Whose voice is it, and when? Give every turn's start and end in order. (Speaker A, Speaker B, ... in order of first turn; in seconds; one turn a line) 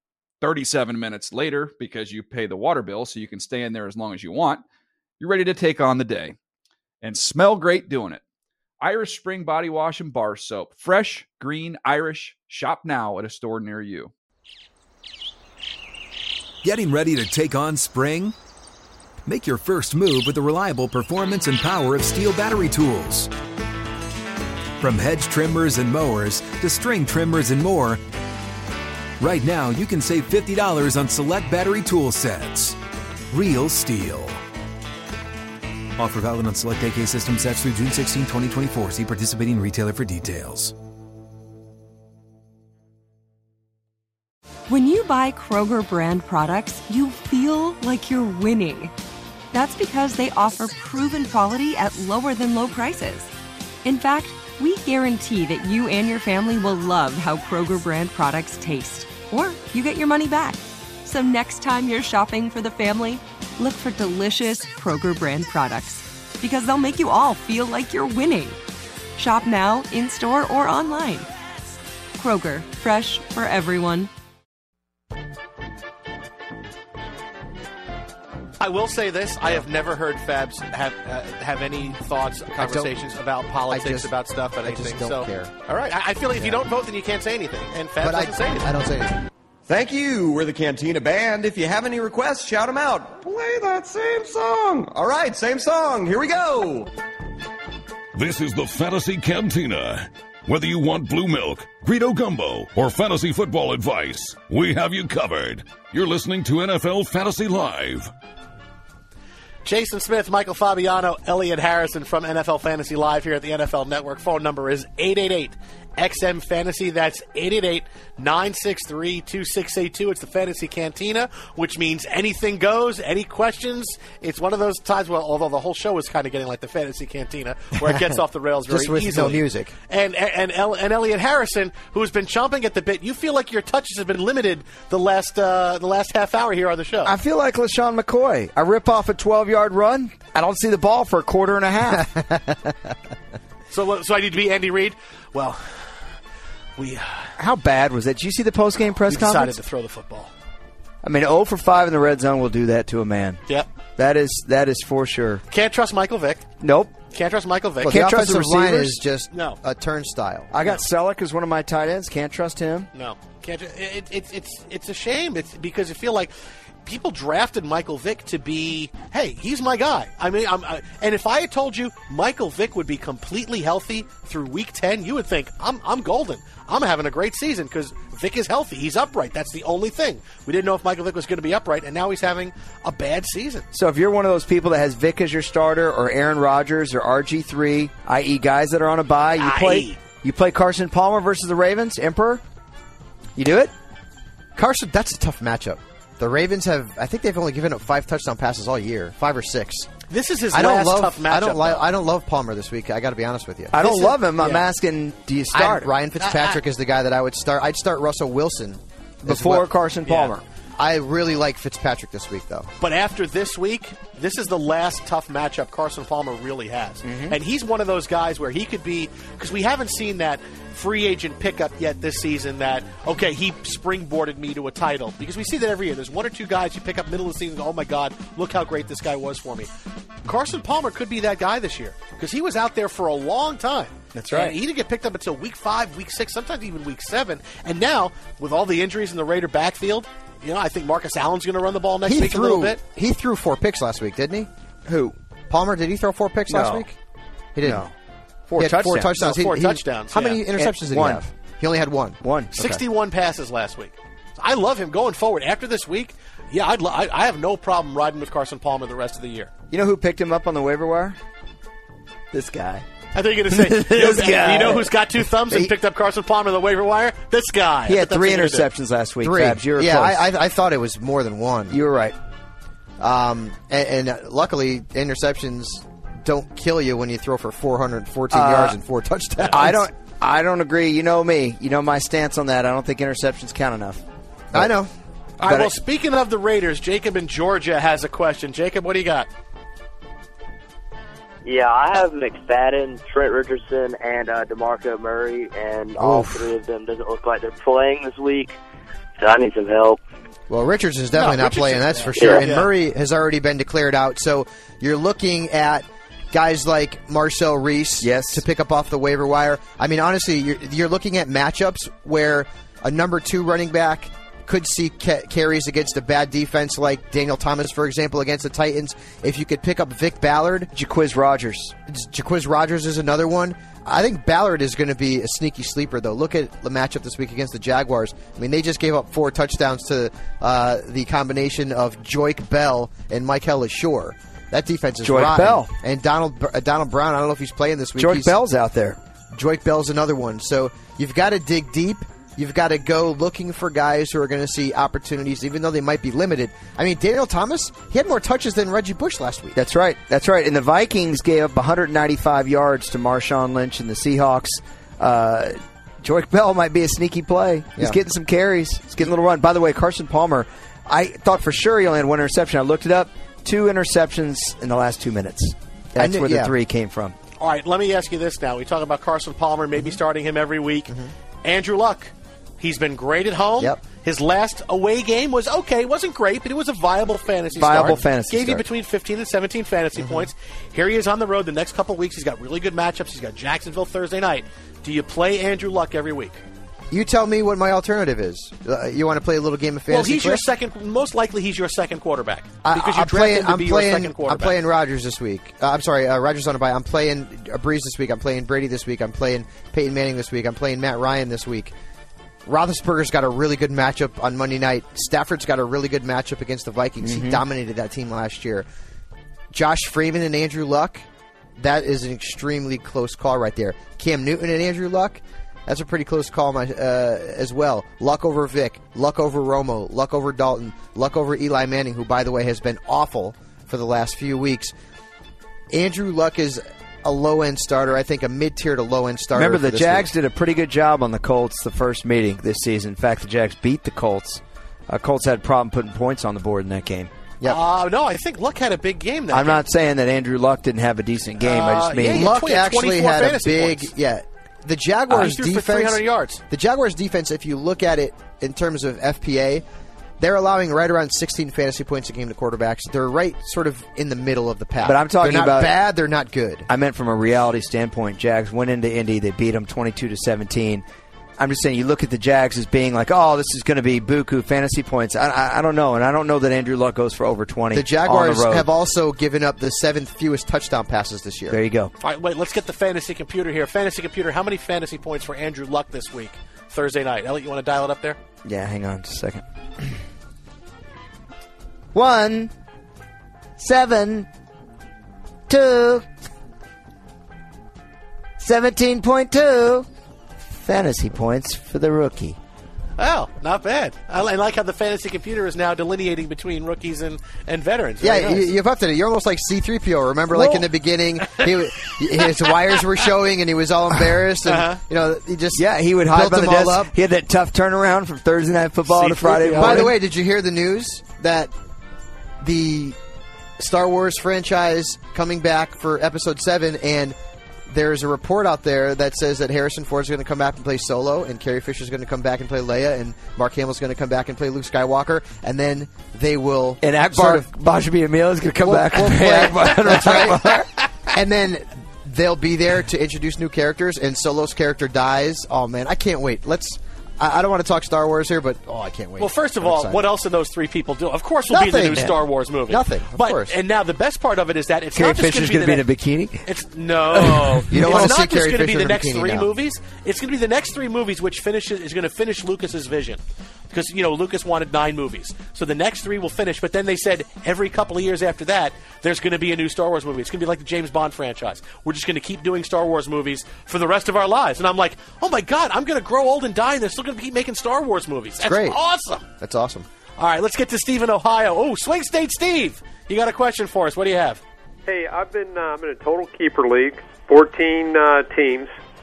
Speaker A: 0.4-4.6
Speaker A: 5.2-6.4
Speaker A: 7.0-8.2
Speaker A: 8.8-14.1
Speaker B: 16.6-18.4
Speaker B: 19.2-23.3
Speaker B: 24.8-28.0
Speaker B: 29.2-32.8
Speaker B: 33.3-34.4
Speaker B: 36.0-40.7
Speaker C: 44.7-48.9
Speaker C: 49.5-53.3
Speaker C: 53.8-68.6
Speaker C: 69.2-71.3
Speaker C: 72.2-74.1
Speaker D: 78.6-88.7
Speaker E: 82.5-82.9
Speaker E: 83.7-85.5
Speaker E: 86.4-86.6
Speaker E: 88.0-89.2
Speaker F: 89.7-96.9
Speaker G: 98.2-108.1
Speaker D: 109.6-137.1
Speaker E: 128.7-129.7
Speaker H: 137.1-142.1
Speaker E: 142.1-142.7
Speaker D: 143.7-146.2
Speaker D: 146.8-147.4
Speaker H: 147.4-149.6
Speaker D: 149.1-150.3
Speaker H: 151.0-153.4
Speaker H: 154.0-155.4
Speaker D: 155.5-156.4
Speaker H: 156.6-157.0
Speaker D: 157.1-158.0
Speaker H: 157.8-159.0
Speaker E: 157.8-160.5
Speaker D: 159.3-159.6
Speaker H: 160.5-162.9
Speaker D: 162.9-166.3
Speaker D: 166.8-183.7
Speaker H: 183.7-192.4
Speaker D: 189.4-190.0
Speaker H: 193.4-193.7
Speaker E: 194.6-199.9
Speaker D: 200.1-201.8
Speaker E: 200.5-203.8
Speaker H: 203.7-205.9
Speaker D: 203.8-204.7
Speaker E: 205.5-209.7
Speaker D: 206.2-206.6
Speaker H: 209.2-210.4
Speaker D: 210.1-210.3
Speaker E: 210.8-212.7
Speaker D: 212.8-229.7
Speaker H: 217.1-217.4
Speaker D: 230.2-242.8
Speaker H: 234.2-234.6
Speaker E: 242.1-244.5
Speaker H: 244.9-245.2
Speaker E: 245.5-246.9
Speaker H: 246.5-246.9
Speaker E: 247.6-247.9
Speaker H: 247.6-247.9
Speaker H: 248.5-249.1
Speaker E: 248.6-252.8
Speaker D: 249.2-250.4
Speaker H: 250.6-251.2
Speaker H: 252.2-252.6
Speaker D: 252.6-259.5
Speaker H: 259.7-261.2
Speaker H: 262.3-262.9
Speaker D: 263.1-268.7
Speaker H: 263.5-264.9
Speaker H: 267.9-270.3
Speaker E: 269.2-271.8
Speaker H: 271.7-272.2
Speaker E: 273.0-279.8
Speaker H: 278.3-278.8
Speaker H: 279.4-284.7
Speaker E: 284.5-284.9
Speaker D: 285.4-289.3
Speaker H: 285.4-285.7
Speaker I: 291.4-298.6
Speaker E: 296.0-296.5
Speaker I: 299.2-300.0
Speaker E: 300.5-320.7
Speaker D: 301.2-302.7
Speaker I: 302.2-302.5
Speaker H: 308.0-308.4
Speaker H: 320.7-321.8
Speaker E: 321.9-338.4
Speaker H: 335.0-335.7
Speaker H: 338.0-339.0
Speaker E: 339.3-349.6
Speaker H: 349.6-367.2
Speaker E: 366.0-366.5
Speaker D: 367.4-370.9
Speaker D: 371.4-386.4
Speaker H: 377.5-378.6
Speaker E: 380.0-380.3
Speaker E: 386.9-390.5
Speaker D: 389.9-394.6
Speaker E: 392.6-401.7
Speaker E: 402.5-408.7
Speaker H: 407.0-407.4
Speaker E: 409.5-411.0
Speaker E: 411.6-424.7
Speaker E: 425.7-430.1
Speaker H: 429.3-437.1
Speaker D: 437.5-439.6
Speaker H: 439.3-442.4
Speaker D: 441.4-443.9
Speaker E: 442.1-449.6
Speaker D: 445.1-446.4
Speaker E: 450.2-456.7
Speaker H: 454.8-455.8
Speaker H: 456.7-460.9
Speaker H: 461.4-468.7
Speaker E: 467.7-471.6
Speaker H: 471.5-471.9
Speaker D: 472.0-478.2
Speaker H: 478.4-480.0
Speaker H: 481.9-482.5
Speaker H: 483.6-484.3
Speaker H: 485.5-486.1
Speaker H: 488.4-489.9
Speaker H: 490.4-492.4
Speaker D: 493.0-498.5
Speaker E: 498.0-506.9
Speaker D: 500.3-500.6
Speaker D: 501.2-502.9
Speaker D: 504.5-504.8
Speaker H: 505.6-509.9
Speaker D: 508.9-509.9
Speaker E: 509.6-511.5
Speaker E: 512.4-513.0
Speaker E: 513.6-517.2
Speaker E: 517.7-527.5
Speaker H: 526.8-530.9
Speaker E: 528.6-540.0
Speaker D: 539.2-545.8
Speaker E: 541.5-543.5
Speaker H: 545.0-546.5
Speaker D: 546.5-553.2
Speaker H: 547.1-548.1
Speaker E: 547.7-549.5
Speaker D: 553.7-569.2
Speaker E: 568.4-568.8
Speaker E: 569.4-569.9
Speaker D: 570.2-574.4
Speaker J: 574.9-578.7